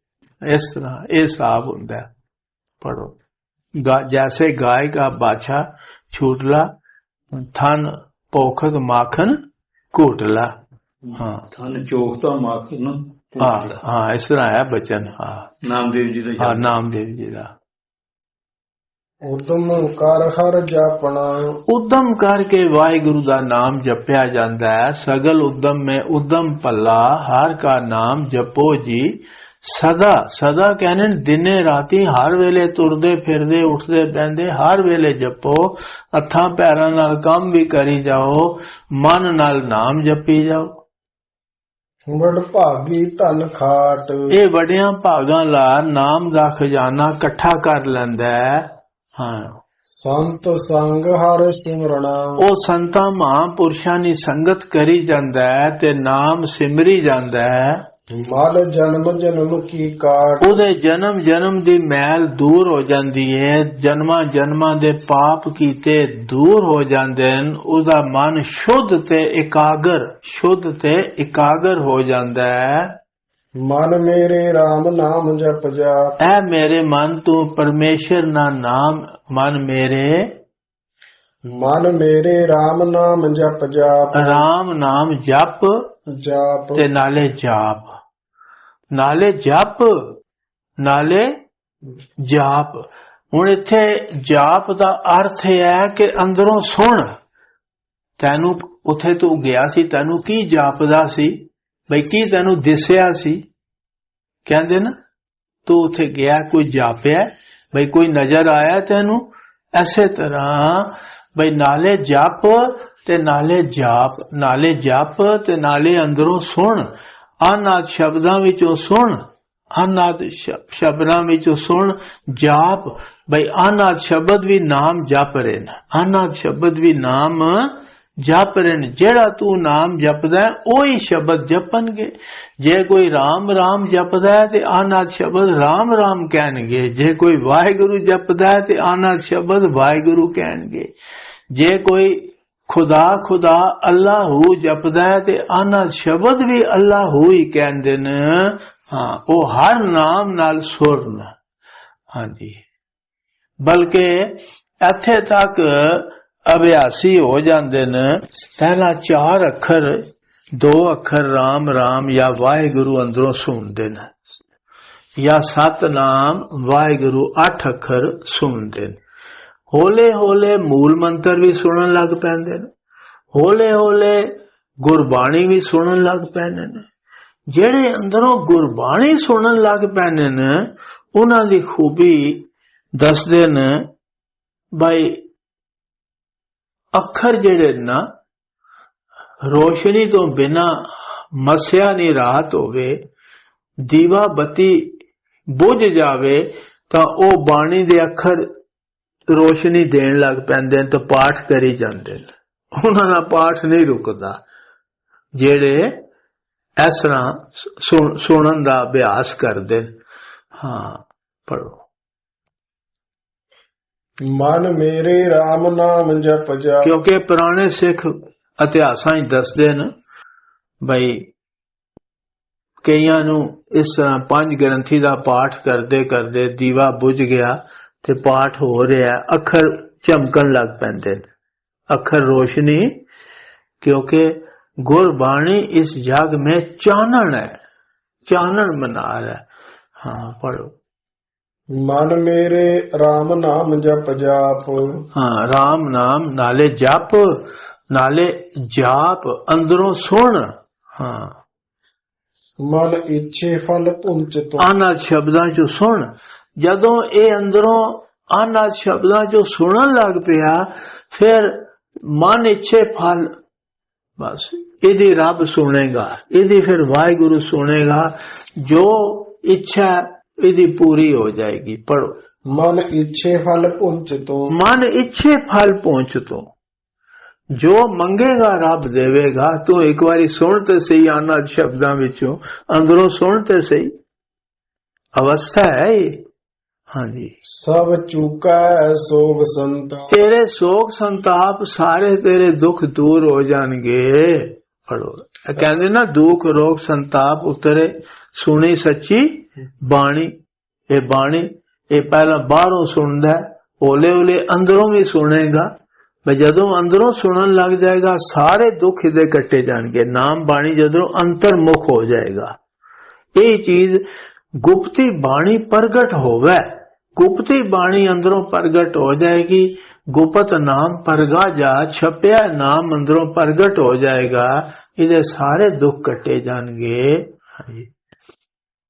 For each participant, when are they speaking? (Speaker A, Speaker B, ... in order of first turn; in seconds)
Speaker A: 0.4-2.1, 2.8-3.1, 3.8-6.7, 7.3-9.4, 9.9-10.5, 11.2-11.5, 13.4-15.5, 16.4-17.5, 21.7-40.8, 44.3-49.6, 52.4-57.8, 60.4-72.9, 76.2-80.3, 84.2-85.9, 86.8-87.9, 88.9-90.2, 90.8-91.4, 92.2-92.8, 93.3-97.2, 98.2-103.4, 104.5-104.9, 105.7-116.9, 117.4-119.2, 119.8-140.9, 141.5-151.3, 152.1-152.6, 153.6-164.2, 165.2-169.0, 169.7-172.7, 173.3-176.8, 177.5-183.9, 184.8-185.2, 186.9-188.1, 189.4-193.0, 193.8-195.0, 195.5-198.5, 199.3-204.4, 205.4-206.0, 206.8-209.9, 210.6-211.8, 216.8-219.9, 220.8-221.3, 222.8-231.3, 231.9-233.0, 233.8-237.6, 238.3-239.4, 240.0-240.7, 245.1-251.4, 254.6-263.3, 264.2-272.2, 274.5-276.5, 277.5-283.9, 285.2-286.2, 286.9-287.4, 290.1-300.4, 300.9-305.7, 306.3-312.6, 313.4-314.0, 314.6-327.9
Speaker B: 11.5-13.8, 15.6-16.7
Speaker C: 19.3-21.6, 42.1-44.3, 49.9-52.4, 58.1-60.6, 73.6-76.2, 81.5-84.5, 86.1-86.8, 214.2-216.9, 241.7-245.0, 252.6-254.7, 272.5-274.5, 287.5-290.1